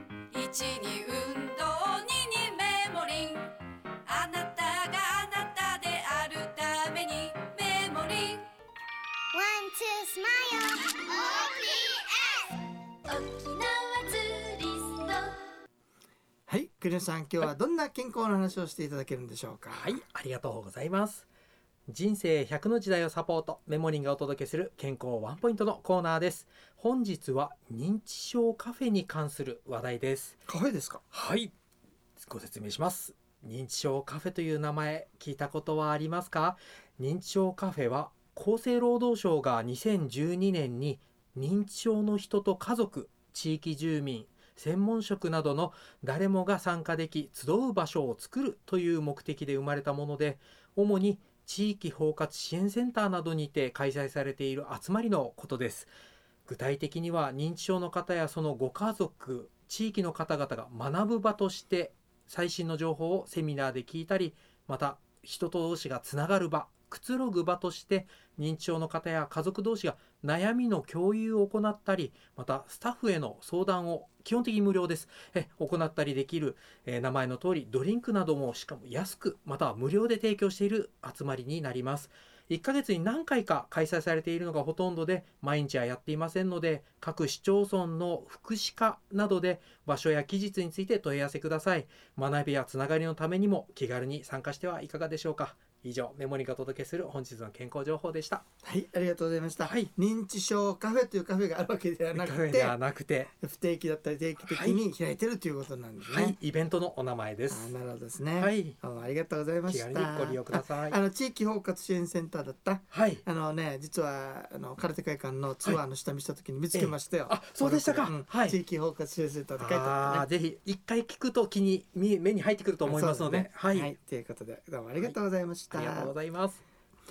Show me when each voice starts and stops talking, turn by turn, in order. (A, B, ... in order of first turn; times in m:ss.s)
0:00.3-0:08.5 A
0:09.4-0:12.4 B
0:11.2-0:11.5 A
0:13.0-0:15.4 A
0:16.5-0:20.0 C
0:19.7-0:21.3 D
0:21.9-0:30.4 D
0:30.5-0:31.0 C
0:31.1-0:31.5 D
0:32.2-0:55.9 D
0:56.5-1:38.4 D
1:38.6-1:42.8 C
1:39.6-1:39.9 D
1:42.1-1:43.3 D
1:43.3-1:46.4 C
1:44.4-1:44.9 D
1:46.0-1:47.7 D
1:47.5-2:00.3 C
1:48.4-1:48.8 D
1:49.7-1:51.0 D
1:52.9-1:53.2 D
1:56.7-1:58.6 D
1:59.6-2:03.9 D
2:02.8-2:06.2 C
2:05.7-2:06.6 D